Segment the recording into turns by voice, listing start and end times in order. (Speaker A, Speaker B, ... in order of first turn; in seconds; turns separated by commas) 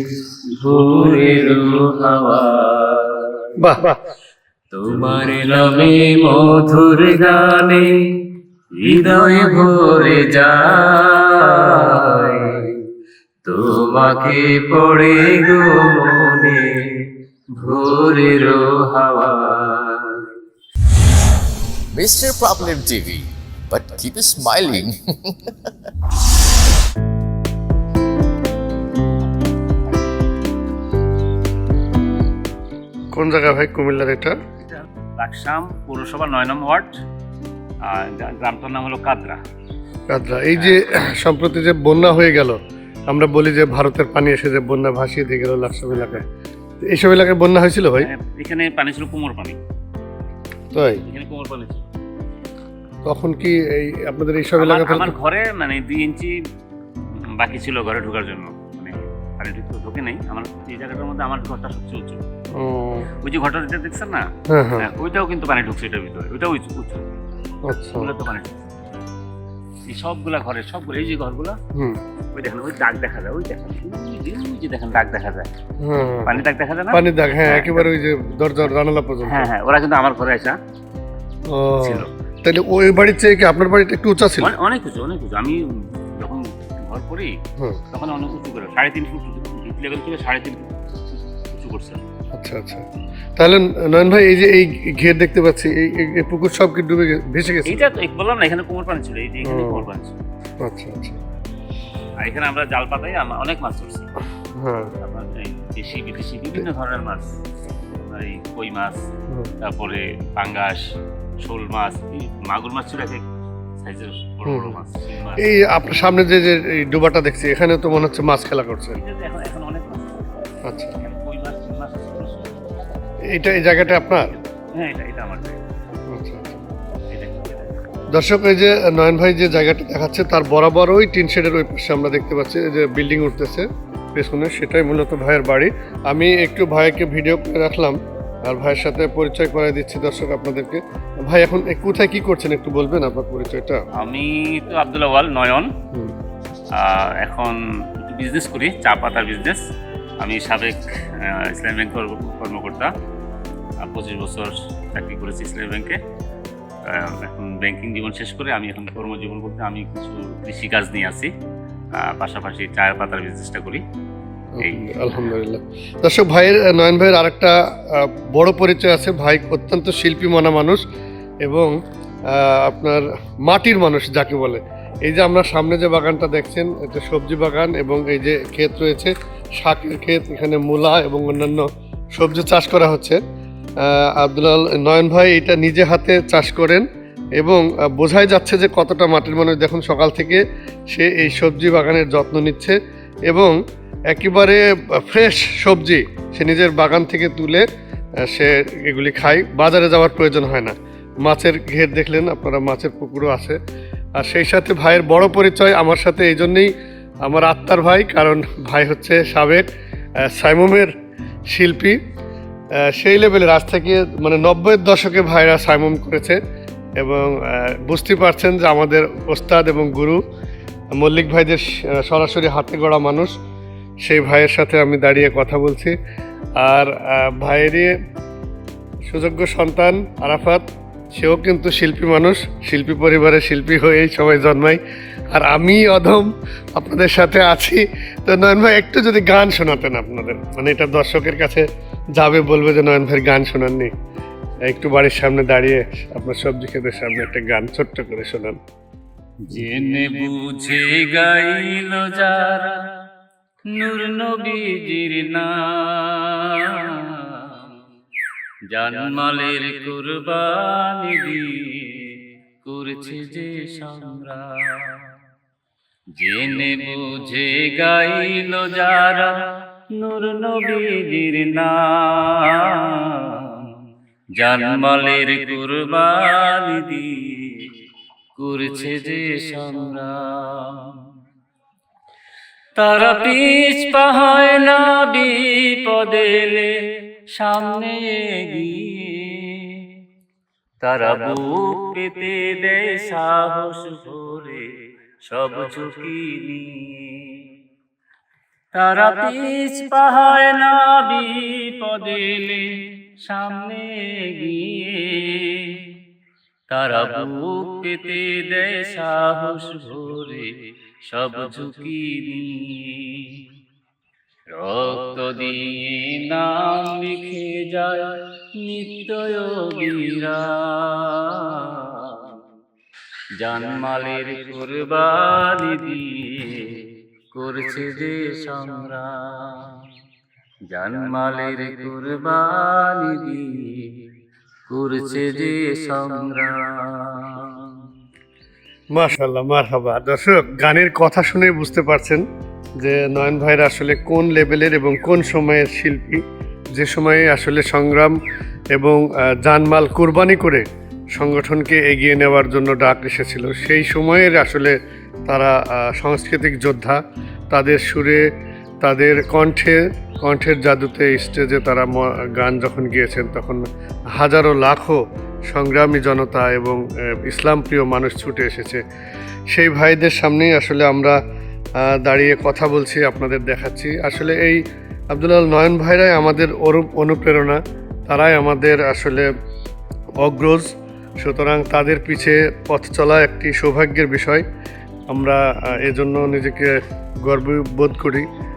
Speaker A: 0.6-2.9, Speaker B: 3.6-4.0, Speaker A: 4.8-7.9, Speaker A: 8.8-11.4, Speaker A: 12.1-12.5, Speaker A: 13.5-16.7, Speaker A: 17.6-20.1, Speaker C: 21.9-25.5, Speaker B: 33.1-34.4, Speaker D: 34.7-36.9, Speaker D: 37.9-39.4, Speaker B: 40.1-42.6, Speaker B: 43.1-46.2, Speaker B: 46.8-48.1, Speaker D: 48.0-49.6, Speaker B: 50.7-51.0, Speaker D: 51.1-51.8, Speaker B: 53.1-55.1, Speaker D: 54.6-56.4, Speaker D: 57.4-62.2, Speaker B: 62.5-63.1, Speaker D: 63.2-64.3, Speaker B: 64.5-64.9, Speaker D: 64.8-67.1, Speaker B: 67.7-68.1, Speaker D: 68.0-68.5, Speaker D: 69.9-71.6, Speaker D: 72.3-75.5, Speaker B: 75.8-79.5, Speaker D: 76.3-77.9, Speaker D: 79.3-80.6, Speaker B: 81.5-84.5, Speaker D: 81.8-82.1, Speaker D: 84.4-85.6, Speaker D: 86.2-87.3, Speaker D: 87.9-90.7, Speaker D: 91.5-92.0, Speaker B: 92.3-92.8, Speaker B: 93.4-97.8, Speaker D: 97.7-100.1, Speaker B: 99.4-99.9, Speaker B: 100.6-101.2, Speaker D: 102.2-104.1, Speaker B: 104.6-104.9, Speaker D: 105.0-107.3, Speaker D: 108.0-109.0, Speaker D: 109.7-110.8, Speaker D: 111.5-113.2, Speaker D: 113.8-115.5, Speaker B: 114.5-114.8, Speaker B: 115.4-119.0, Speaker D: 119.0-120.3, Speaker B: 120.6-121.0, Speaker D: 121.0-122.5, Speaker B: 123.3-124.3, Speaker D: 124.8-125.6, Speaker B: 126.1-126.6, Speaker D: 127.1-127.7, Speaker B: 128.1-143.8, Speaker D: 144.0-145.7, Speaker D: 146.8-147.5, Speaker D: 148.1-149.6, Speaker D: 150.2-150.8, Speaker D: 151.5-152.9, Speaker D: 153.8-156.0, Speaker D: 156.9-161.3, Speaker D: 162.0-163.8, Speaker B: 164.6-170.8, Speaker D: 164.6-165.0, Speaker B: 171.4-171.7, Speaker B: 172.3-183.2, Speaker B: 183.8-186.9, Speaker B: 187.4-192.8, Speaker B: 193.3-193.6, Speaker B: 194.1-197.7, Speaker B: 198.3-203.6, Speaker B: 204.2-206.7, Speaker B: 207.2-209.7, Speaker B: 210.3-210.9, Speaker B: 211.5-212.0, Speaker B: 212.9-216.4, Speaker B: 217.0-220.2, Speaker B: 221.0-223.3, Speaker B: 224.0-225.9, Speaker B: 226.6-227.9, Speaker B: 229.1-234.8, Speaker B: 235.3-241.7, Speaker B: 242.2-243.9, Speaker B: 244.7-248.6, Speaker A: 249.6-252.5, Speaker D: 250.1-250.7, Speaker A: 253.8-255.4, Speaker A: 258.8-259.4, Speaker D: 259.4-260.2, Speaker A: 263.0-264.2, Speaker A: 266.3-266.8, Speaker D: 266.5-267.4, Speaker A: 267.9-269.0, Speaker A: 270.0-271.5, Speaker A: 274.4-275.0, Speaker D: 275.0-275.9, Speaker A: 276.5-277.0, Speaker A: 278.4-280.1, Speaker A: 282.8-286.7, Speaker A: 287.4-288.7, Speaker A: 290.9-294.3, Speaker D: 295.6-296.7, Speaker A: 298.8-300.6, Speaker D: 302.2-302.6, Speaker A: 303.4-303.7, Speaker D: 304.4-304.7, Speaker D: 306.7-308.2, Speaker A: 308.6-309.4, Speaker D: 309.1-310.5, Speaker D: 311.1-313.2, Speaker D: 314.6-318.0, Speaker D: 318.7-321.1, Speaker D: 323.4-326.7, Speaker D: 327.4-329.7, Speaker D: 330.7-333.7, Speaker D: 334.7-337.3, Speaker A: 335.0-335.4, Speaker B: 338.9-342.2, Speaker B: 342.8-346.2, Speaker B: 346.7-348.2, Speaker B: 348.7-354.8, Speaker B: 355.3-357.0, Speaker B: 357.5-358.2, Speaker B: 358.8-363.6, Speaker B: 364.1-368.8, Speaker B: 369.5-371.2, Speaker B: 371.8-374.6, Speaker B: 375.1-379.3, Speaker B: 380.2-380.7, Speaker B: 381.2-384.4, Speaker B: 385.1-388.3